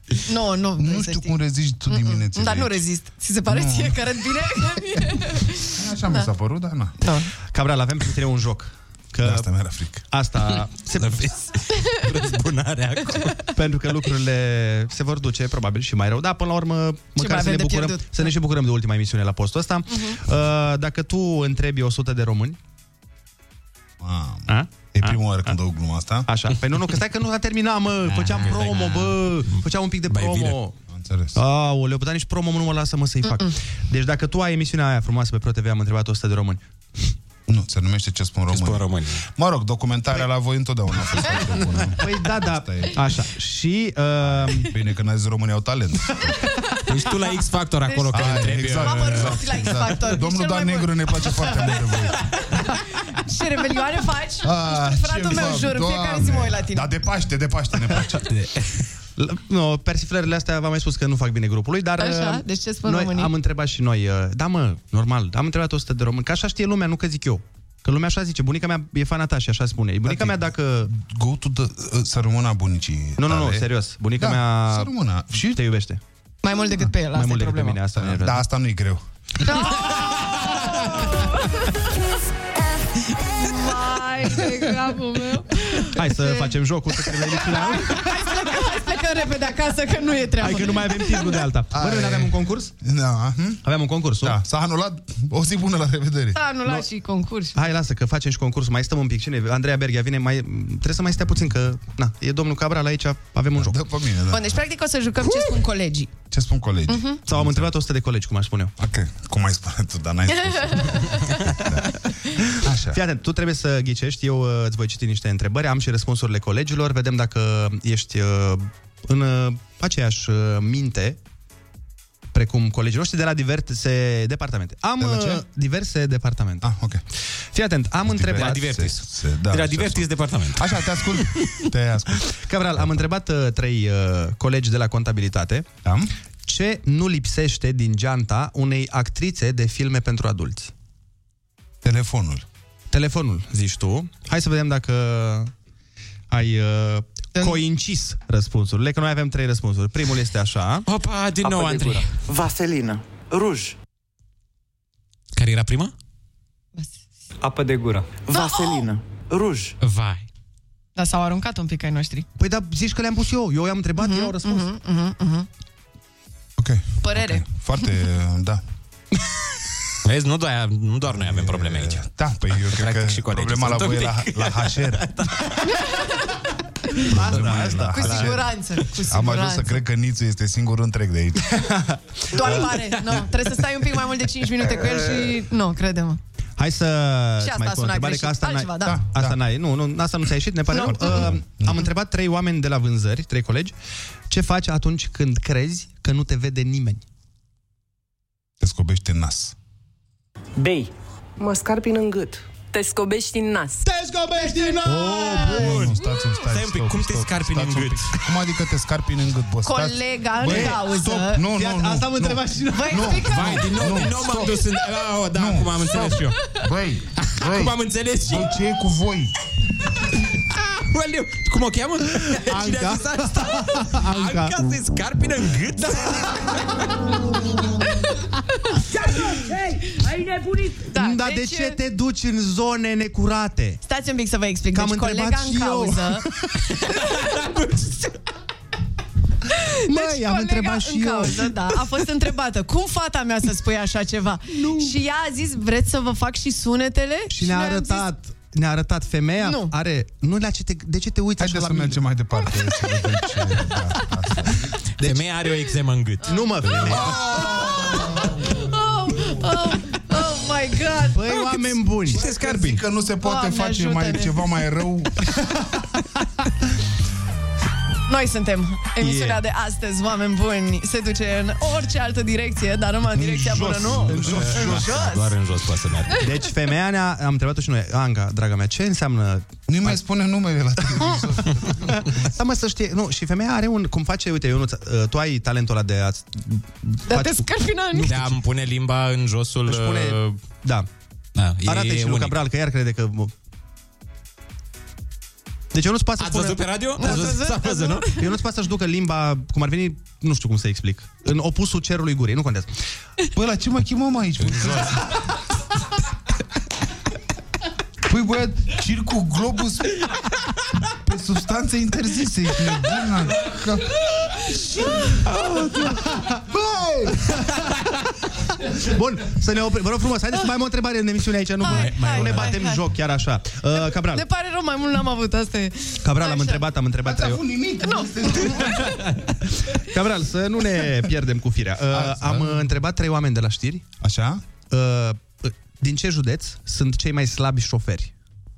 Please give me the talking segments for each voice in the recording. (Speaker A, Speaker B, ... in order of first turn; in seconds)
Speaker A: 0.2-6.3, 7.0-7.3, 17.2-18.3, 33.3-33.5, 47.9-51.8, 52.5-56.9, 62.0-63.3, 76.4-77.8, 79.4-81.8, 83.2-91.5, 96.3-97.6, 104.3-106.1, 106.9-107.2, 110.3-111.3, 158.3-158.8, 160.9-162.2, 164.0-165.5, 167.0-167.4, 175.6-177.1, 177.9-179.8, 182.3-186.2, 187.4-189.0, 190.7-191.3, 204.4-204.8, 209.6-211.4, 212.7-213.7, 230.8-231.8, 233.8-236.2, 239.5-248.1, 249.4-249.7, 257.6-261.8, 263.2-264.4, 268.1-275.4, 287.1-288.2, 297.0-298.2, 321.6-322.8, 323.7-326.7, 327.8-328.8
Speaker B: 0.8-2.8, 3.5-4.1, 5.7-6.9, 9.2-10.0, 24.0-26.3, 28.1-28.5, 30.9-31.4, 37.5-43.0, 44.2-46.4, 48.1-52.2, 54.4-58.3, 70.0-75.6, 77.9-79.0, 91.7-93.6, 94.2-96.4, 103.5-104.6, 106.3-107.7, 108.8-113.0, 125.0-125.4, 126.6-127.0, 128.0-132.9, 135.8-136.1, 141.8-142.4, 166.6-168.6, 171.1-175.1, 177.1-178.5, 179.1-181.4, 188.8-189.4, 190.9-191.9, 198.6-199.5, 205.5-214.7, 215.3-219.3, 251.4-254.8, 256.8-258.4, 262.1-265.3, 273.1-274.8, 279.7-282.4, 303.3-305.1, 308.1-310.1, 311.0-313.9, 314.4-315.1, 316.3-317.4, 327.0-329.0, 331.9-332.7, 334.0-334.4
Speaker C: 7.5-9.5, 10.1-11.3, 13.5-22.6, 24.5-25.6, 26.3-30.7, 31.3-37.1, 41.9-44.7, 59.1-70.9, 73.2-76.0, 77.1-78.5, 85.9-88.2, 90.4-92.7, 93.6-94.4, 97.5-103.8, 107.2-108.7, 112.7-121.2, 122.3-126.7, 127.5-128.7, 132.3-135.7, 136.4-140.7, 142.9-145.5, 146.3-150.8, 162.4-164.7, 177.1-178.3, 181.4-182.8, 186.6-193.7, 194.3-197.0, 203.8-205.9, 210.4-213.3, 222.2-224.6, 225.8-226.3, 230.9-233.8, 234.7-236.7, 239.8-241.6, 244.5-245.0, 247.3-252.0, 255.0-255.3, 256.2-257.1, 261.0-262.6, 269.0-269.4, 274.1-274.8, 276.2-280.0, 281.9-288.3, 289.6-290.9, 291.6-293.3, 295.7-297.4, 298.1-302.7, 318.7-324.2, 326.0-327.4, 328.5-333.9, 334.7-338.1
Speaker D: 11.0-13.5, 28.3-30.6, 38.5-39.2, 46.9-49.9, 58.3-58.5, 128.3-131.6, 150.9-152.1, 155.3-155.9, 159.8-160.2, 170.0-175.6, 177.3-178.3, 204.8-208.2, 213.2-216.6, 217.1-218.6, 220.3-226.5, 237.1-238.0, 255.0-257.1, 262.1-262.8, 274.1-276.2, 288.0-290.4, 291.4-292.4, 296.2-298.2, 304.4-305.0, 321.7-322.4
Speaker E: 151.4-153.7, 157.4-159.7
Speaker F: 201.4-203.8